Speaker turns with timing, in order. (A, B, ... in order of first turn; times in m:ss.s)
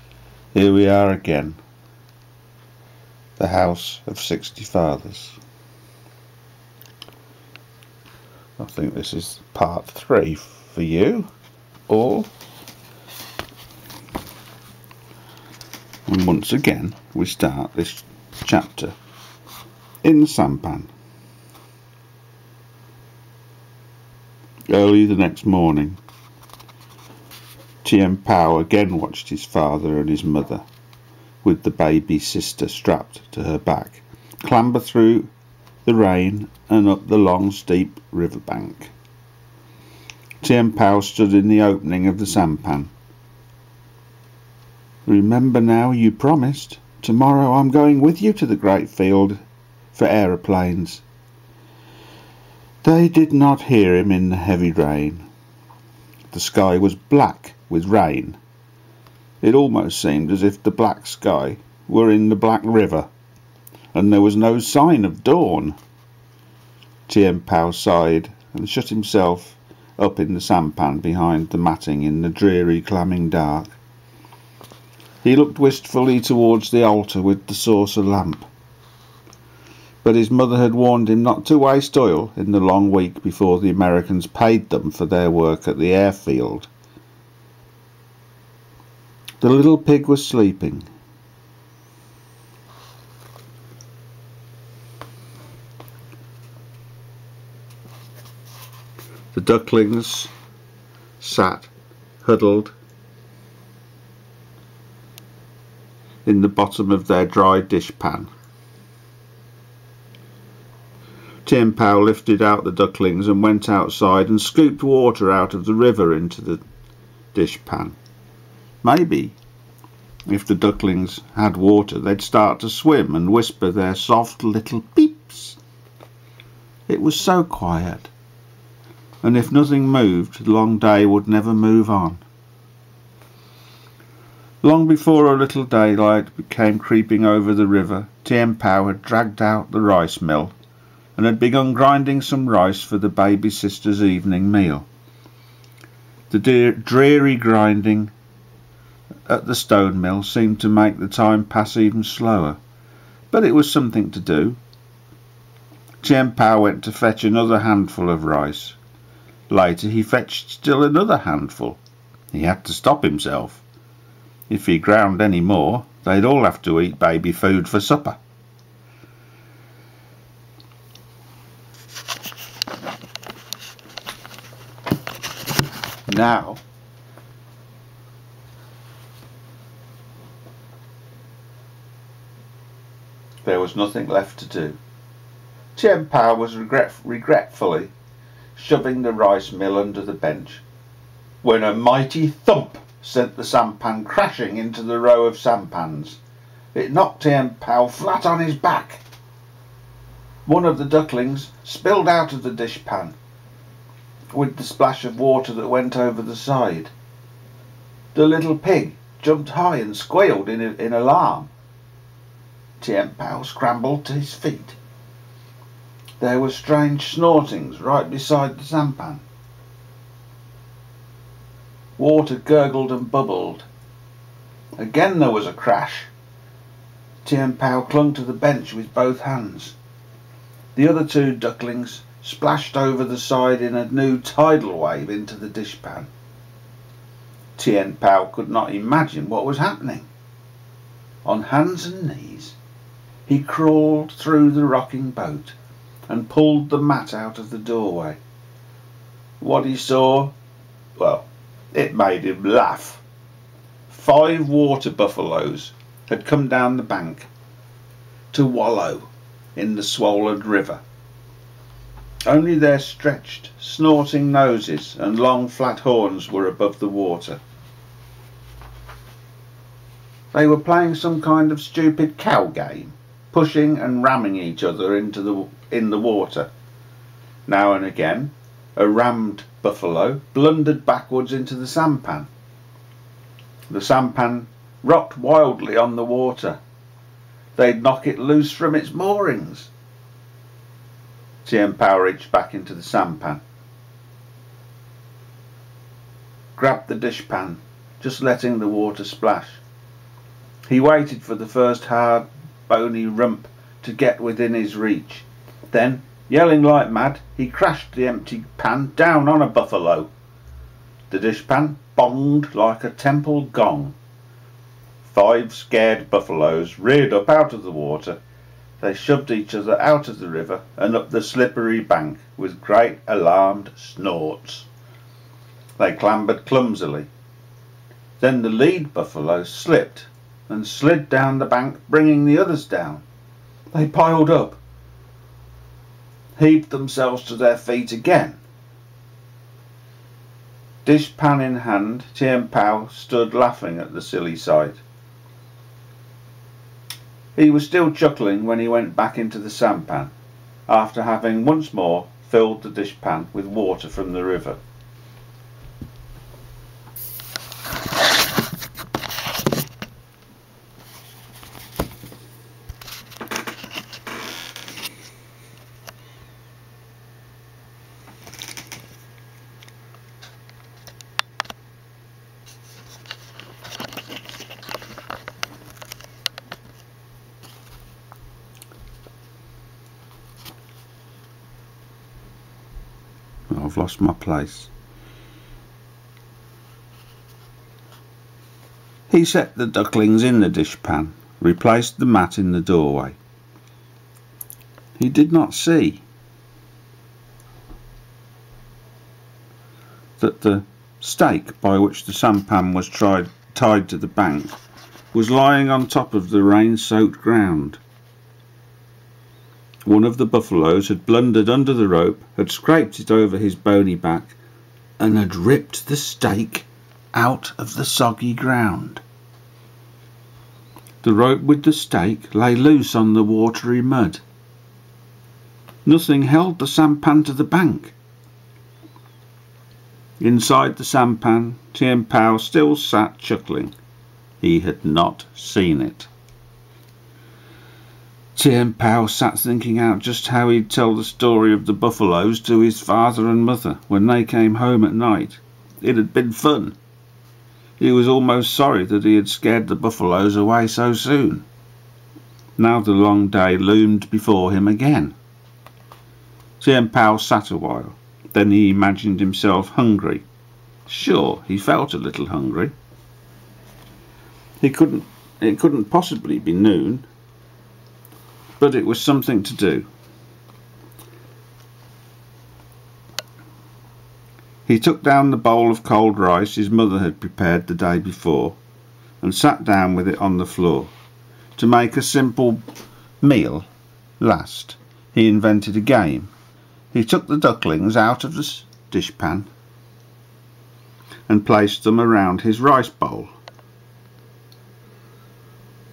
0:00.5-0:01.6 A
0:03.4-0:05.4 A
0:08.6-0:11.3 A
0:11.9-0:12.3 A
0:16.1-0:19.0 A
0:20.0-0:20.9 A
0:24.7-0:26.0 A
0:27.8-0:30.6 A
0:31.4-0:35.3 A
0:35.8-0:38.9 A
0:40.4-0:42.9 A
0:45.0-0:49.4 A
0:49.9-0:51.0 A
0:52.8-0:55.2 A
0:56.3-0:58.4 A
0:59.4-1:03.1 A
1:03.9-1:05.8 A
1:07.1-1:13.7 A
1:15.2-1:18.5 A
1:20.0-1:26.7 A
1:29.4-1:30.9 A
1:39.3-1:40.3 A
1:41.2-1:41.7 A
1:42.2-1:42.7 A
1:46.2-1:48.3 A
1:51.4-1:56.6 A
1:57.3-1:58.0 A
1:58.8-1:59.4 A
2:00.3-2:05.6 A
2:06.9-2:08.1 A
2:09.2-2:12.2 A
2:14.6-2:20.5 A
2:21.2-2:24.9 A
2:26.3-2:28.1 A
2:29.3-2:32.6 A
2:33.3-2:34.6 A
2:36.0-2:38.8 A
2:39.5-2:41.8 A
2:42.3-2:43.6 A
2:44.5-2:48.2 A
2:56.1-2:56.6 A
3:03.4-3:04.8 A
3:05.7-3:07.9 A
3:08.5-3:10.6 A
3:11.4-3:16.2 A
3:16.7-3:19.0 A
3:20.4-3:23.2 A
3:24.3-3:26.9 A
3:28.1-3:31.5 A
3:32.8-3:34.8 A
3:36.2-3:39.2 A
3:42.0-3:43.7 A
3:44.8-3:46.1 A
3:47.2-3:49.8 A
3:50.7-3:56.1 A
3:57.6-4:00.1 A
4:01.2-4:02.6 A
4:03.3-4:05.5 A
4:06.1-4:08.2 A
4:09.4-4:10.3 A
4:11.0-4:13.0 A
4:13.9-4:17.3 A
4:18.3-4:20.8 A
4:22.2-4:27.4 A
4:30.3-4:36.5 A
4:37.4-4:42.3 A
4:43.7-4:46.6 A
4:47.6-4:49.7 A
4:51.4-4:53.4 A
4:56.6-4:59.6 A
5:00.7-5:10.1 A
5:11.1-5:14.0 A
5:15.0-5:18.2 A
5:18.8-5:24.7 A
5:25.8-5:27.1 A
5:28.2-5:33.0 A
5:33.7-5:34.6 A
5:36.4-5:38.4 A
5:40.8-5:44.8 A
5:47.4-5:50.1 A
5:50.7-5:54.6 A
6:23.5-6:24.7 A
6:29.1-6:33.2 A
6:35.0-6:36.0 A
6:40.2-6:44.5 A
6:45.1-6:47.8 A
6:49.8-6:54.4 A
6:55.0-6:59.0 A
7:01.0-7:04.2 A
7:05.8-7:08.0 A
7:10.2-7:13.7 A
7:14.4-7:16.1 A
7:18.3-7:26.8 A
7:27.8-7:31.4 A
7:32.6-7:35.1 A
7:36.6-7:40.2 A
7:40.9-7:42.7 A
7:44.6-7:47.0 A
7:48.6-7:49.9 A
7:54.6-7:58.6 A
7:59.2-8:00.9 A
8:01.6-8:02.6 A
8:03.2-8:03.7 A
8:04.2-8:06.3 A
8:06.9-8:09.5 A
8:11.3-8:13.3 A